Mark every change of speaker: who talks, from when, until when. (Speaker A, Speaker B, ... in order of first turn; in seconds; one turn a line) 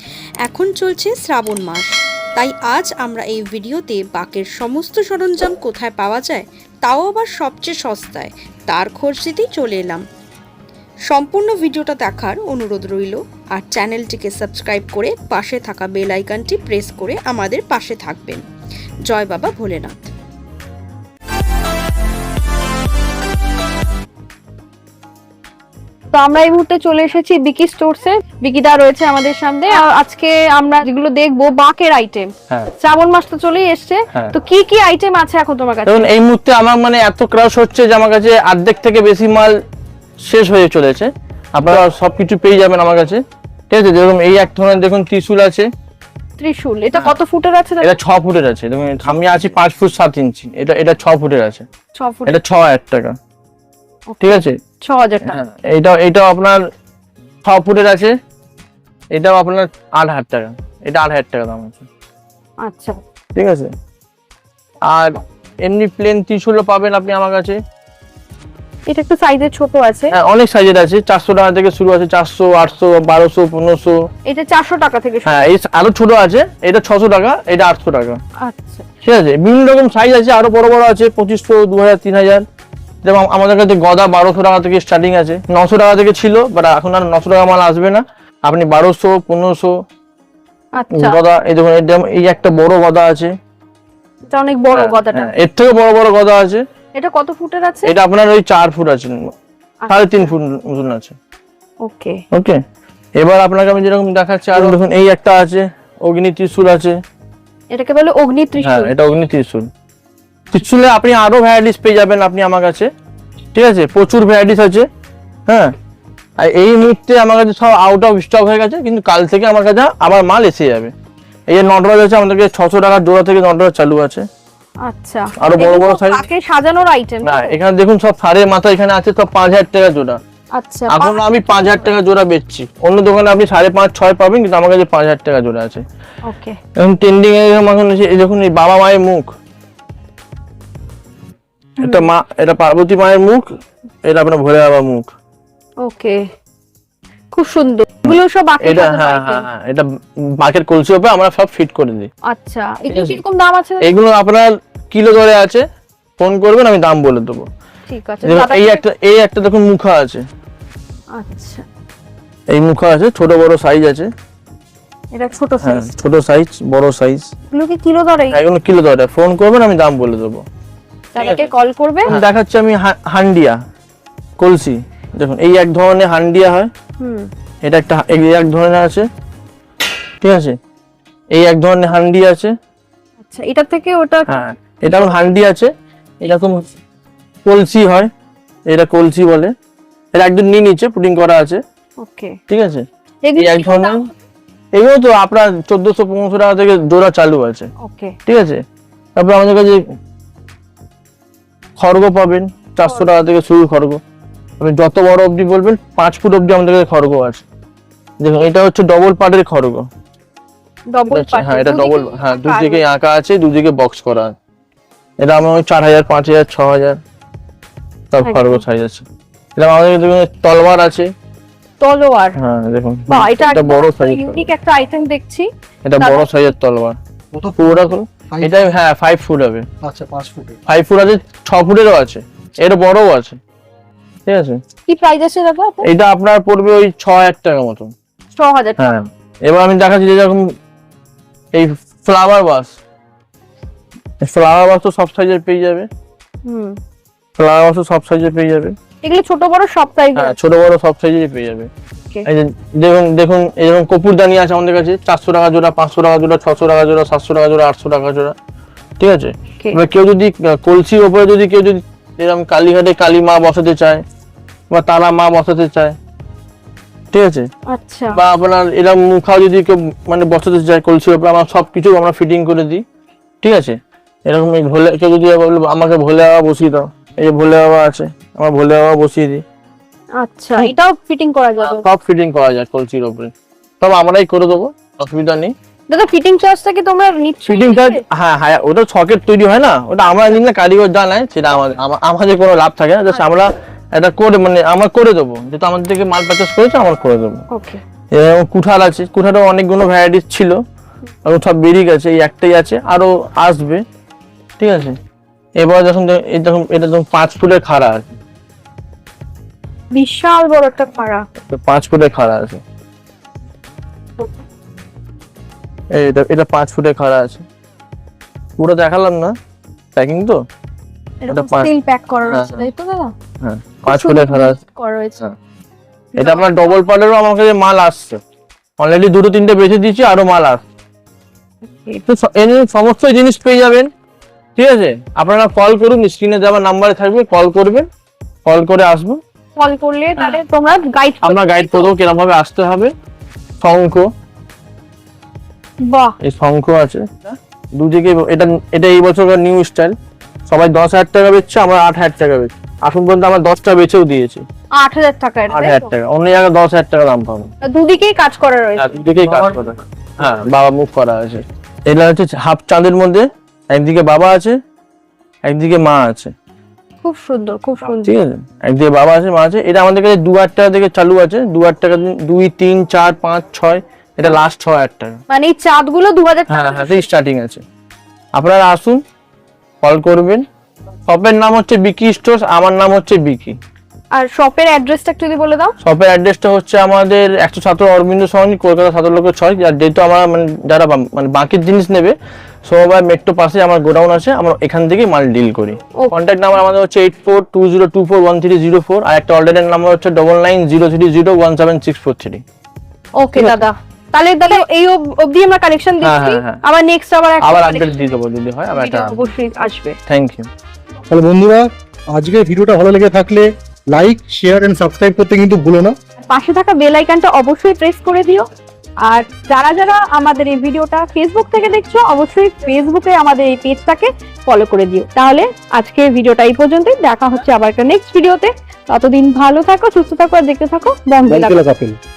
Speaker A: 0.4-10.0
Speaker A: 11.1-18.4
Speaker A: 19.1-20.1
Speaker B: 26.1-36.1
Speaker C: 35.9-39.5
Speaker C: 40.2-45.7
Speaker B: 46.4-48.0
Speaker C: 47.8-51.7
Speaker B: 52.0-52.4
Speaker C: 52.3-53.2
Speaker B: 54.1-55.4
Speaker C: 54.2-54.6
Speaker C: 55.2-56.6
Speaker C: 57.4-58.1
Speaker C: 59.1-61.9
Speaker B: 62.6-63.0
Speaker C: 63.3-63.7
Speaker C: 64.9-67.6
Speaker B: 68.9-70.1
Speaker C: 70.1-74.0
Speaker B: 74.2-75.5
Speaker C: 75.2-78.2
Speaker B: 78.4-78.8
Speaker C: 79.0-82.4
Speaker C: 83.0-89.7
Speaker B: 90.7-91.2
Speaker C: 90.9-93.3
Speaker B: 94.2-95.3
Speaker C: 94.7-96.6
Speaker B: 96.9-97.9
Speaker C: 97.8-99.3
Speaker B: 99.8-100.3
Speaker C: 99.9-101.2
Speaker B: 101.8-102.2
Speaker C: 102.3-102.6
Speaker C: 103.2-107.0
Speaker B: 107.7-108.9
Speaker C: 108.6-109.7
Speaker C: 110.5-112.9
Speaker C: 113.5-114.9
Speaker C: 116.4-120.9
Speaker C: 121.5-124.2
Speaker B: 124.8-127.6
Speaker C: 125.4-126.2
Speaker C: 127.2-130.2
Speaker B: 130.5-131.7
Speaker C: 130.9-135.8
Speaker B: 136.2-136.6
Speaker C: 136.8-139.3
Speaker B: 141.8-142.1
Speaker C: 141.8-143.5
Speaker C: 144.1-145.1
Speaker B: 145.8-146.2
Speaker B: 147.3-149.5
Speaker C: 148.1-149.8
Speaker C: 150.4-152.1
Speaker B: 152.2-153.9
Speaker C: 152.9-153.2
Speaker C: 153.8-155.6
Speaker C: 156.2-157.5
Speaker B: 157.9-158.8
Speaker C: 158.2-160.2
Speaker B: 161.2-161.7
Speaker C: 162.5-164.1
Speaker B: 165.1-165.9
Speaker C: 165.6-167.3
Speaker B: 167.5-168.4
Speaker C: 168.3-170.4
Speaker B: 171.1-172.2
Speaker C: 172.1-173.6
Speaker C: 174.4-176.7
Speaker B: 177.0-177.3
Speaker C: 177.7-179.1
Speaker C: 180.2-180.6
Speaker C: 181.3-182.5
Speaker B: 183.2-184.4
Speaker C: 184.3-185.7
Speaker C: 186.2-186.6
Speaker C: 187.4-188.1
Speaker C: 188.7-189.5
Speaker C: 190.2-191.6
Speaker B: 192.0-192.3
Speaker C: 192.5-192.8
Speaker B: 193.2-194.0
Speaker C: 193.4-194.1
Speaker C: 194.8-197.7
Speaker B: 197.8-198.2
Speaker C: 198.2-198.6
Speaker C: 199.2-199.8
Speaker C: 201.8-204.0
Speaker C: 204.6-207.4
Speaker C: 208.2-209.8
Speaker B: 210.9-212.8
Speaker C: 211.1-214.3
Speaker C: 215.2-217.0
Speaker C: 218.1-219.1
Speaker B: 218.2-218.6
Speaker C: 219.6-221.1
Speaker B: 221.8-222.4
Speaker C: 222.4-224.5
Speaker B: 223.1-226.2
Speaker C: 225.8-227.0
Speaker D: 227.3-227.8
Speaker C: 227.6-229.7
Speaker D: 228.3-228.6
Speaker D: 229.8-230.6
Speaker C: 230.7-233.4
Speaker C: 234.3-234.6
Speaker B: 234.9-235.9
Speaker C: 235.8-237.9
Speaker B: 238.3-239.0
Speaker C: 238.8-240.5
Speaker C: 241.5-242.8
Speaker C: 244.2-245.9
Speaker B: 246.4-246.8
Speaker C: 247.4-248.8
Speaker B: 249.0-250.4
Speaker C: 250.2-251.7
Speaker C: 252.2-258.4
Speaker C: 259.0-264.0
Speaker C: 264.7-265.9
Speaker C: 267.1-267.5
Speaker B: 267.7-268.2
Speaker C: 268.1-272.8
Speaker C: 273.4-279.4
Speaker B: 280.2-281.9
Speaker C: 281.7-285.5
Speaker B: 285.9-288.0
Speaker C: 287.5-297.4
Speaker B: 297.5-297.8
Speaker C: 298.1-300.6
Speaker C: 301.2-303.8
Speaker C: 304.6-304.9
Speaker C: 305.6-308.1
Speaker B: 309.9-311.2
Speaker C: 311.4-312.6
Speaker C: 315.9-317.4
Speaker C: 318.6-319.3
Speaker C: 319.9-320.4
Speaker B: 321.2-323.1
Speaker C: 321.3-321.7
Speaker C: 322.2-322.6
Speaker C: 323.4-324.6
Speaker B: 323.9-325.3
Speaker B: 326.1-326.8
Speaker C: 326.2-328.2
Speaker C: 328.8-330.6
Speaker B: 331.7-332.0
Speaker C: 332.1-333.9
Speaker C: 334.6-337.9
Speaker C: 338.4-339.2
Speaker B: 339.6-341.9
Speaker C: 341.2-342.9
Speaker C: 343.6-344.1
Speaker B: 345.8-346.1
Speaker C: 346.2-349.9
Speaker C: 350.5-354.4
Speaker B: 354.8-355.9
Speaker C: 355.5-357.5
Speaker B: 357.6-359.0
Speaker C: 358.8-364.6
Speaker C: 365.4-366.3
Speaker B: 367.0-368.1
Speaker C: 367.9-375.2
Speaker B: 375.3-377.0
Speaker C: 376.5-377.6
Speaker C: 378.4-379.0
Speaker C: 379.8-380.4
Speaker C: 381.1-383.6
Speaker B: 384.1-385.7
Speaker C: 385.8-402.4
Speaker B: 403.2-408.0
Speaker C: 403.4-403.7
Speaker C: 406.0-406.6
Speaker C: 407.4-409.2
Speaker B: 408.7-410.0
Speaker C: 410.1-410.5
Speaker D: 411.1-415.9
Speaker B: 416.3-418.5
Speaker B: 419.0-431.6
Speaker D: 431.3-432.0